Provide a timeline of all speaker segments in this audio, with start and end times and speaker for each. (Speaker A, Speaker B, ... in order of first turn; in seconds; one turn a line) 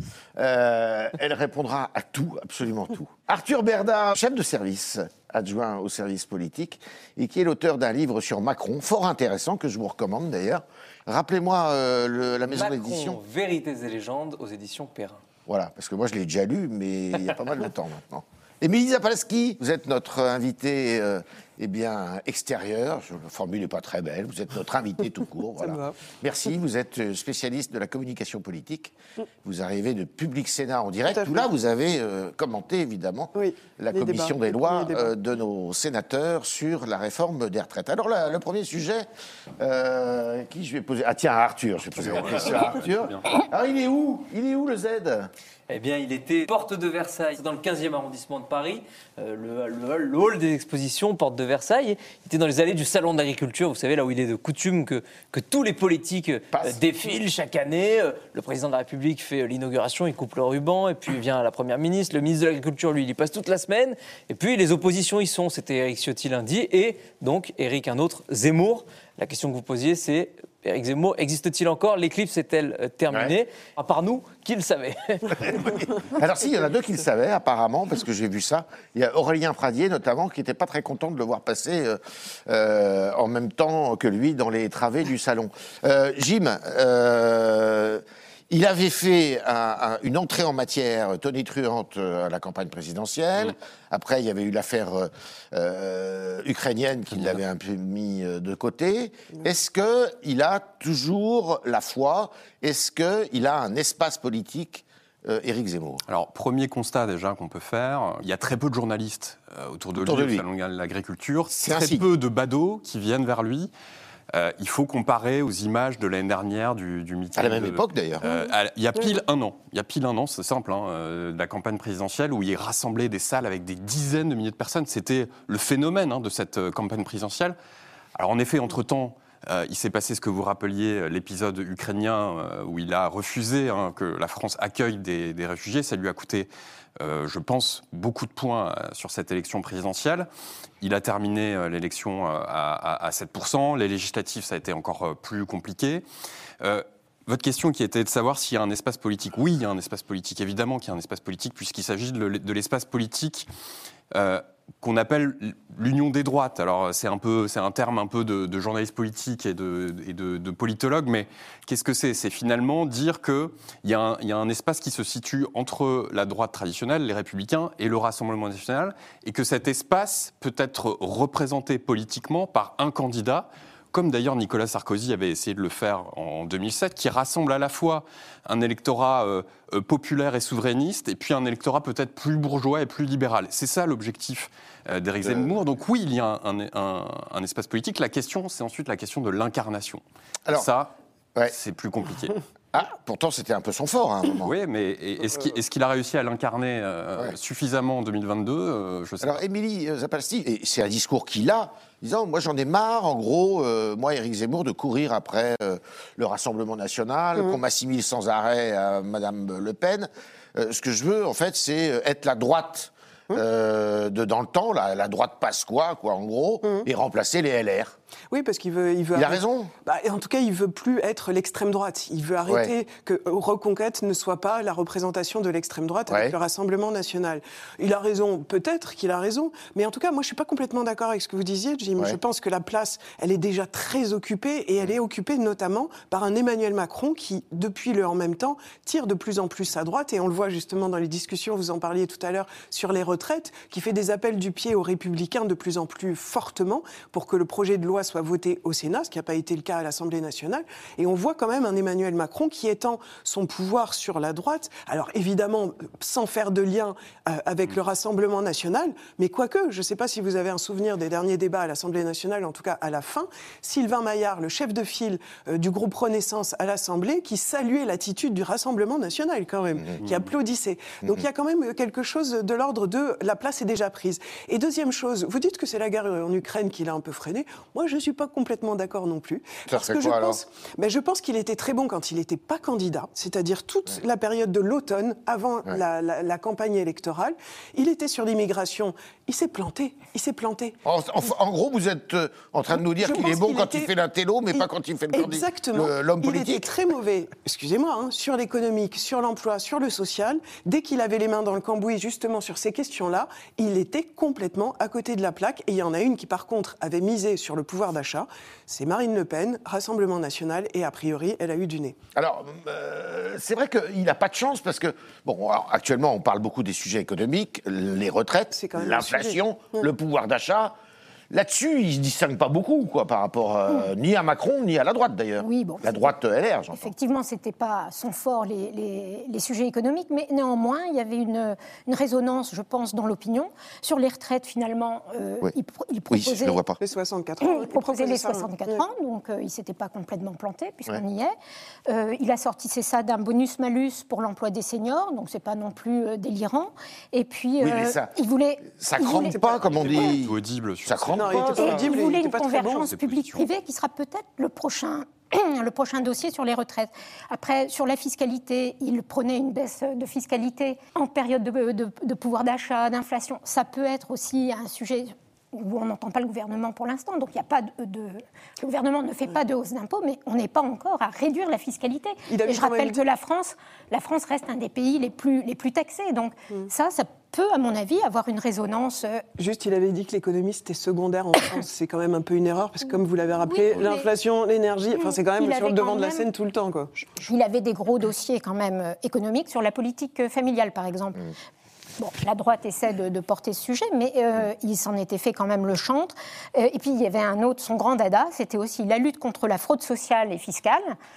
Speaker A: 0.4-13.2
Speaker B: 12.5-15.2
Speaker A: 15.5-39.1
Speaker C: 25.6-26.0
Speaker C: 31.1-31.4
Speaker C: 33.4-35.1
Speaker A: 39.6-45.3
Speaker D: 41.9-43.3
Speaker B: 45.7-75.7
Speaker A: 56.5-56.8
Speaker A: 75.6-106.0
Speaker D: 97.1-97.4
Speaker D: 106.1-113.7
Speaker A: 110.0-110.4
Speaker A: 111.5-112.1
Speaker D: 114.3-127.6
Speaker A: 117.3-118.2
Speaker D: 128.2-140.3
Speaker D: 140.8-146.1
Speaker D: 146.6-153.5
Speaker D: 154.1-190.9
Speaker A: 185.2-185.6
Speaker D: 191.5-192.4
Speaker A: 192.7-194.5
Speaker D: 194.4-199.4
Speaker A: 199.2-218.0
Speaker C: 218.3-290.8
Speaker A: 219.2-219.7
Speaker A: 222.5-222.7
Speaker A: 226.1-226.3
Speaker D: 270.0-270.3
Speaker A: 279.7-280.4
Speaker A: 290.9-296.7
Speaker C: 293.0-293.9
Speaker C: 295.1-312.0
Speaker A: 312.2-320.8
Speaker C: 318.5-319.4
Speaker A: 321.3-326.9
Speaker E: 325.4-326.1
Speaker E: 326.8-336.6
Speaker A: 336.1-336.8
Speaker C: 336.8-338.8
Speaker E: 337.4-341.3
Speaker E: 341.9-350.1
Speaker A: 347.6-348.1
Speaker A: 348.7-351.9
Speaker C: 349.3-350.1
Speaker D: 349.7-351.6
Speaker C: 351.1-352.9
Speaker E: 351.5-379.2
Speaker D: 352.8-353.5
Speaker C: 372.3-373.0
Speaker C: 379.4-387.0
Speaker E: 383.4-384.1
Speaker E: 384.9-386.3
Speaker E: 387.2-391.3
Speaker E: 392.0-401.0